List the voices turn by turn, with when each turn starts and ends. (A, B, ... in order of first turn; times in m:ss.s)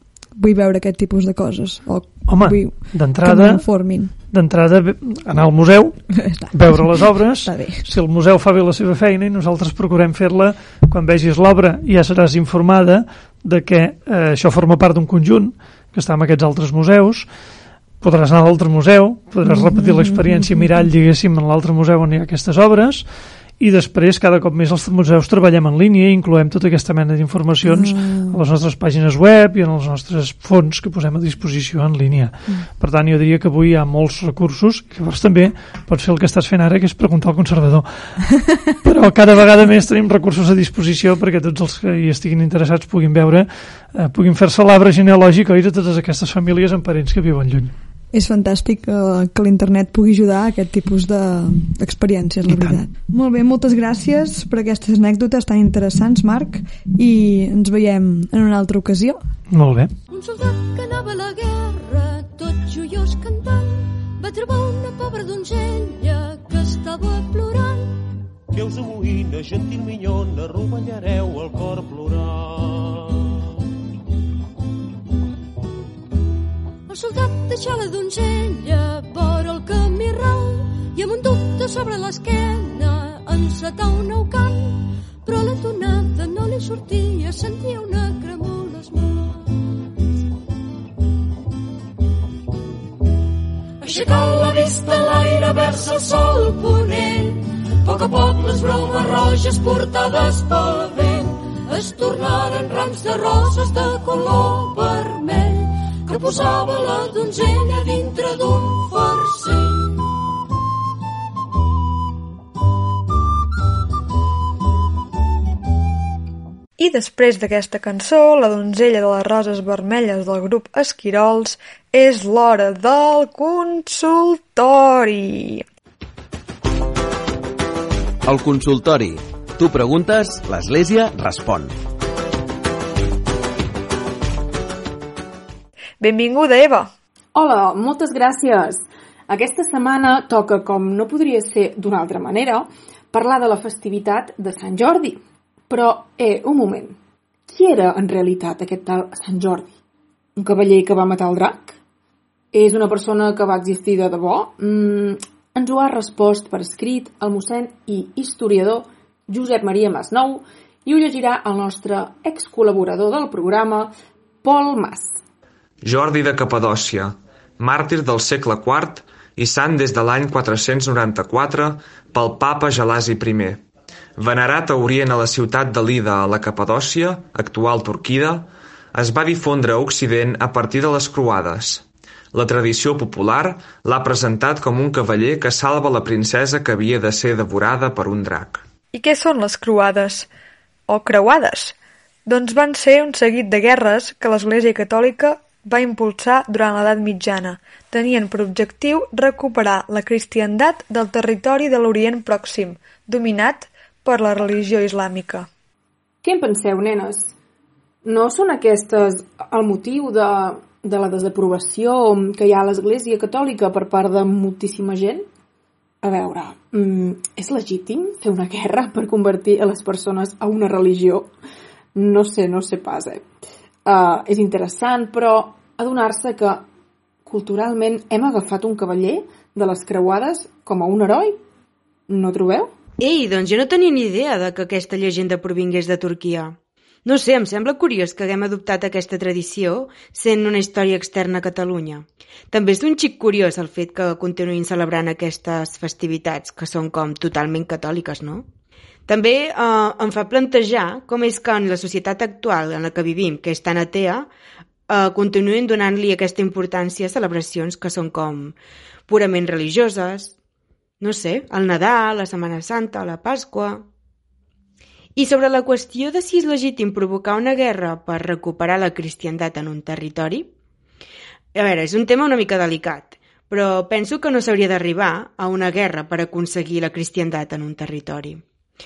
0:00.4-0:04.2 A
0:02.3-0:17.3 B
0:06.1-0:07.9 A
0:18.0-0:23.1 B
0:19.5-0:20.9 A
0:23.6-0:38.2 B
0:27.6-0:28.4 A
0:38.8-0:47.7 B
0:48.1-0:59.2 A
0:52.5-0:52.8 B
0:59.5-0:59.9 B
1:00.1-1:08.1 C
1:08.5-1:13.5 D
1:16.9-1:29.6 C
1:33.8-1:50.0 C
1:56.8-2:05.6 E
2:08.3-2:11.7 F
2:16.0-2:16.9 E
2:17.4-2:29.8 G
2:30.4-2:31.8 G
2:32.5-2:45.2 G
2:45.8-2:53.6 H
2:54.2-3:08.6 H
3:08.9-3:10.3 E
3:10.9-3:11.8 E
3:12.3-3:25.5 E
3:26.2-3:27.3 G
3:28.0-3:35.3 G
3:36.0-3:41.3 G
3:42.0-3:43.3 G
3:43.8-3:46.7 G
3:47.2-3:51.4 G
3:52.1-3:52.7 G
3:53.0-4:08.5 I
4:09.1-4:14.3 I
4:14.9-4:18.6 I
4:19.1-4:20.3 I
4:21.0-4:23.8 I
4:25.2-4:30.5 I
4:31.6-4:38.4 I